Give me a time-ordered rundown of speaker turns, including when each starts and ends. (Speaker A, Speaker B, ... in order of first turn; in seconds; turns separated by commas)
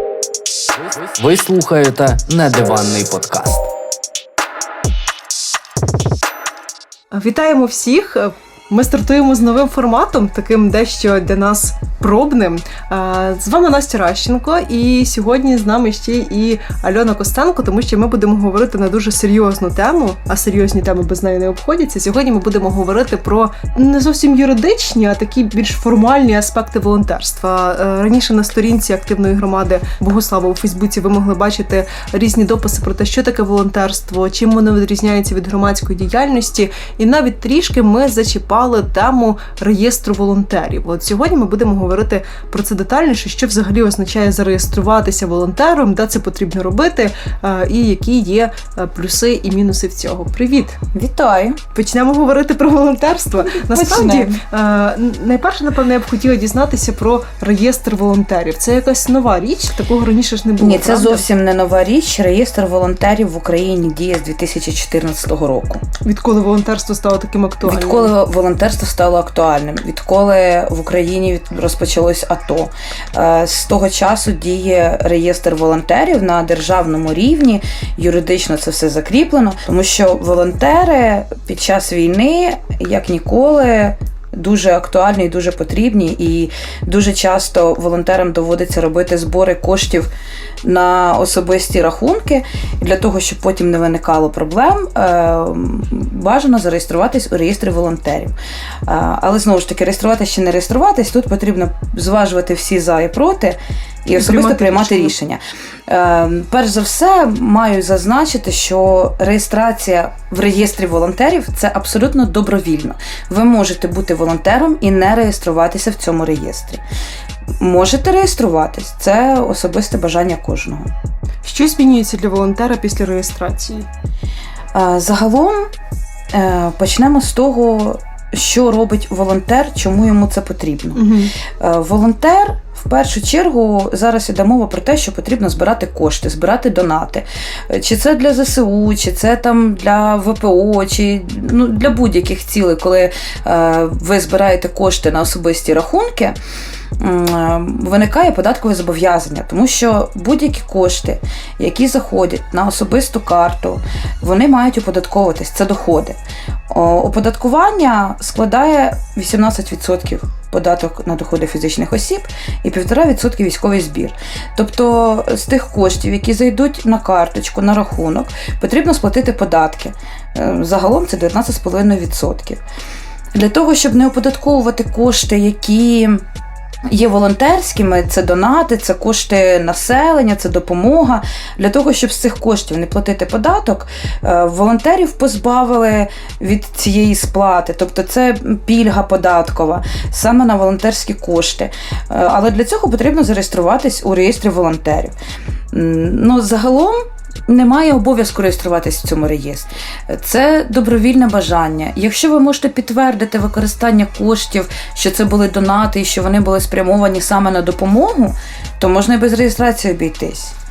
Speaker A: 1.1-3.7, Speaker B: 7.1-50.8, Speaker C: 50.9-51.6, Speaker B: 51.7-61.2, Speaker C: 53.7-54.4, Speaker C: 60.6-65.8, Speaker B: 66.0-68.1, Speaker C: 67.7-90.1, Speaker C: 90.6-98.3, Speaker C: 98.9-116.8, Speaker B: 104.2-105.1, Speaker C: 117.6-120.9, Speaker B: 121.4-123.9, Speaker C: 124.7-125.7, Speaker C: 126.3-146.4, Speaker B: 130.9-131.3, Speaker C: 147.0-156.2, Speaker C: 156.7-172.6, Speaker C: 173.3-176.2, Speaker C: 176.9-195.2, Speaker C: 195.7-210.5